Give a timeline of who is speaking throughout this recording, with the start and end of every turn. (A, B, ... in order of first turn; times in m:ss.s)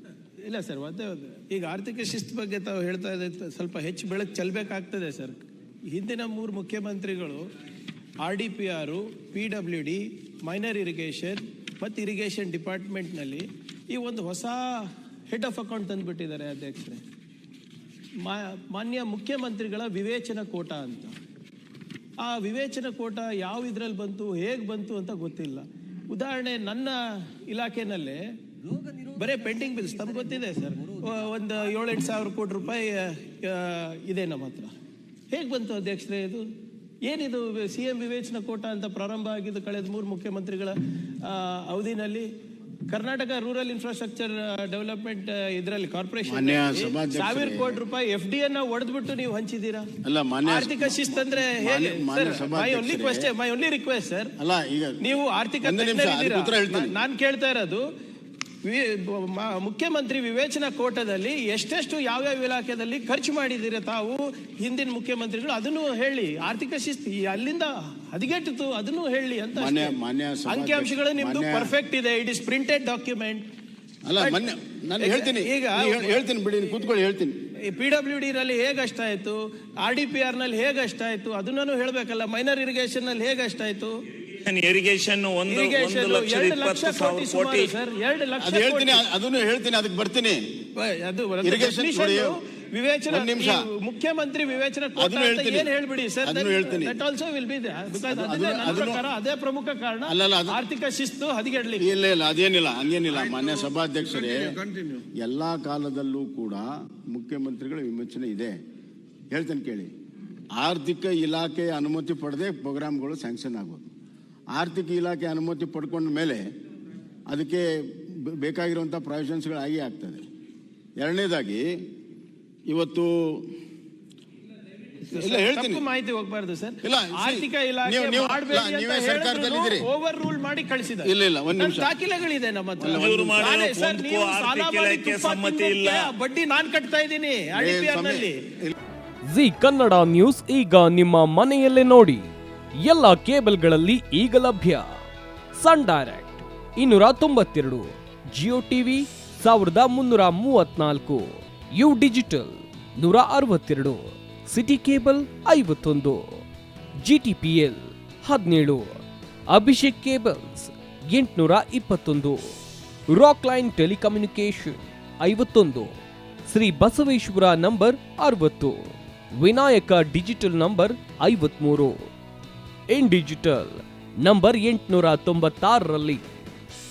0:00.4-0:07.5 A
0:08.2-0:17.0 A
0:18.2-0:21.2 A
0:22.2-0:28.2 A
0:28.7-0:31.3 B
0:29.1-0:34.7 A
0:35.3-0:36.5 A
0:37.0-0:42.3 A
0:42.9-0:49.9 A
0:46.2-0:47.8 C
0:50.0-0:53.3 C
0:50.4-0:54.3 A
0:54.4-0:57.0 C
0:55.0-0:57.8 A
0:58.6-1:10.0 A
1:09.6-1:11.7 C
1:10.5-1:13.4 A
1:14.0-1:17.4 C
1:14.2-1:14.5 A
1:15.0-1:16.2 A
1:17.7-1:24.0 A
1:24.3-1:27.7 D
1:25.5-1:29.0 A
1:28.4-1:30.4 C
1:30.8-1:41.9 A
1:31.4-1:32.4 C
1:33.1-1:33.7 C
1:35.0-1:35.7 C
1:36.2-1:37.0 C
1:38.1-1:39.0 C
1:40.1-1:40.6 C
1:41.8-1:48.6 C
1:49.3-1:49.9 C
1:50.5-1:53.9 C
1:54.5-1:56.4 C
1:57.3-2:00.2 C
2:01.0-2:01.8 C
2:02.7-2:03.5 C
2:05.0-2:18.4 A
2:05.1-2:05.8 C
2:06.8-2:09.9 C
2:11.0-2:11.9 C
2:12.8-2:13.6 C
2:12.9-2:16.1 D
2:17.5-2:18.7 C
2:19.2-2:22.3 B
2:22.8-2:24.9 B
2:25.5-2:36.4 B
2:37.0-2:42.6 B
2:43.1-2:52.1 B
2:52.9-2:56.2 B